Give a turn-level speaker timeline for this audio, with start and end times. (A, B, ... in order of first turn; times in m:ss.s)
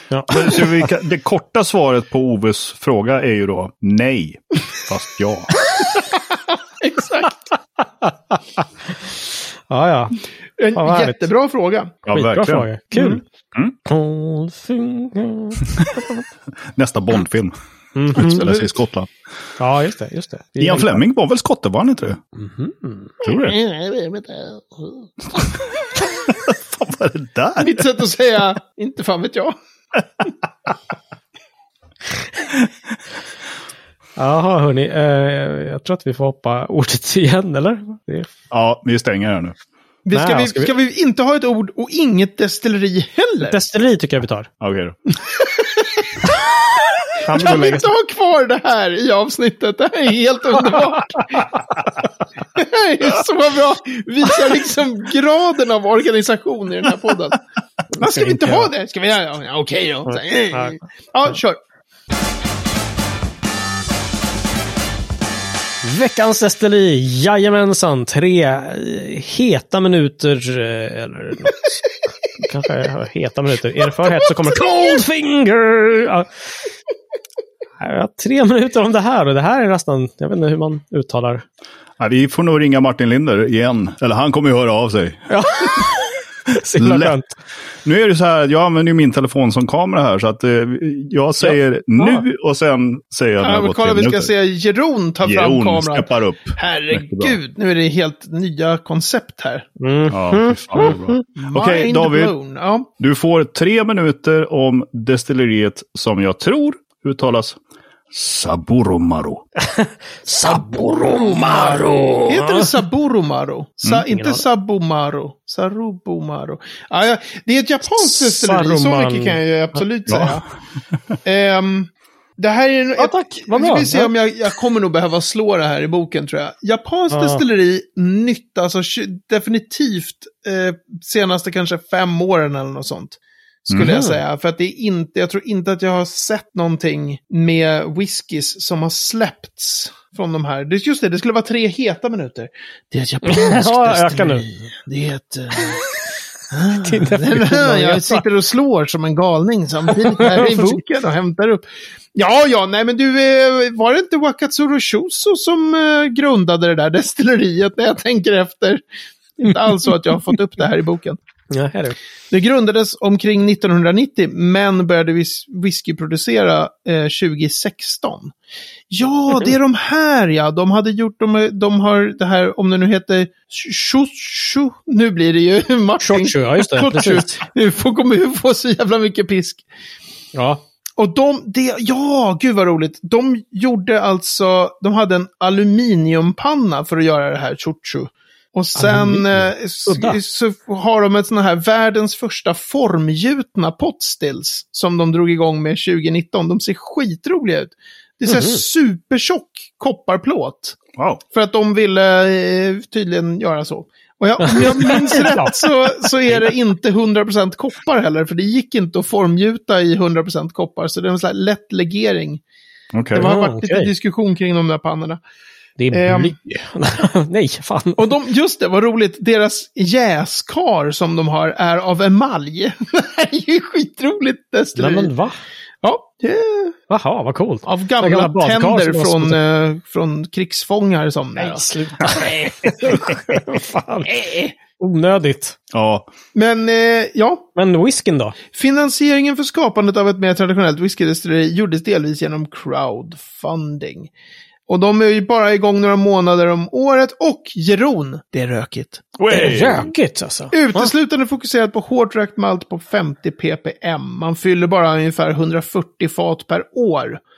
0:00.3-0:05.5 A
0:05.8-0:07.5 B
0:07.8-0:08.6 C
0:09.7-0:10.2 C
0:10.6-0:12.0 B
0:10.8-0:11.3 C
0:12.0-0:12.7 A
0:12.1-0:13.2 C
0:12.9-0:13.2 B
0:13.8-0:16.2 C
0:16.6-0:17.6 A
0:17.9-0:18.4 C
0:18.1-0:19.1 A
0:18.2-0:18.8 B
0:19.6-0:21.0 C
0:20.6-0:22.2 A
0:22.4-0:23.2 C
0:23.2-0:23.6 A
0:23.2-0:25.1 B
0:26.1-0:27.8 A
0:27.6-0:29.6 B
0:34.2-0:38.3 C
0:38.5-0:39.6 A
0:40.0-0:43.6 B
0:40.1-0:40.7 C
0:43.4-0:44.5 C
0:44.6-0:45.0 A
0:45.3-0:46.4 B
0:47.2-0:47.9 C
0:47.3-0:51.5 B
0:52.6-0:57.4 B
0:57.9-1:01.6 B
0:58.0-0:58.7 C
1:00.0-1:01.4 C
1:05.8-1:11.7 C
1:12.4-1:16.3 C
1:17.8-1:21.4 C
1:22.0-1:25.3 A
1:25.3-1:27.4 C
1:26.8-1:27.1 A
1:27.8-1:34.3 A
1:31.4-1:32.2 C
1:33.4-1:39.7 B
1:35.2-1:37.4 A
1:39.8-1:41.2 C
1:40.1-1:42.3 A
1:41.3-1:42.9 B
1:43.0-1:47.6 A
1:48.1-1:49.4 A
1:49.6-1:52.7 C
1:50.9-2:00.4 B
1:54.1-1:54.4 C
1:57.8-1:59.4 C
2:00.1-2:00.3 A
2:01.2-2:25.8 B
2:03.0-2:04.1 C
2:07.1-2:07.4 C
2:13.8-2:14.2 C
2:23.2-2:24.4 C
2:25.6-2:26.0 C
2:26.5-2:38.8 B
2:26.6-2:28.2 C
2:29.9-2:30.8 C
2:39.4-2:41.2 B
2:39.5-2:39.9 C
2:41.5-2:42.0 C
2:42.3-2:48.3 B
2:48.9-2:59.6 B
2:56.0-2:57.4 C
3:00.3-3:00.6 C
3:01.0-3:20.8 B
3:08.8-3:10.2 C
3:18.3-3:18.6 C
3:21.0-3:21.2 A
3:21.3-3:32.4 B
3:24.4-3:26.5 C
3:32.9-3:33.2 A
3:33.1-3:35.2 B
3:33.1-3:33.9 C
3:35.8-3:38.1 C
3:35.9-3:36.6 B
3:38.0-3:45.1 B
3:44.8-3:45.4 C
3:45.8-3:46.8 B
3:46.9-3:49.4 C
3:47.6-3:52.9 B
3:51.4-3:55.6 C
3:54.1-3:54.5 B
3:55.7-3:56.1 A
3:56.3-3:57.4 B
3:57.6-3:58.4 C
3:58.5-4:04.1 B
4:04.7-4:09.1 B
4:09.2-4:09.9 A
4:09.3-4:10.9 C
4:10.5-4:17.2 B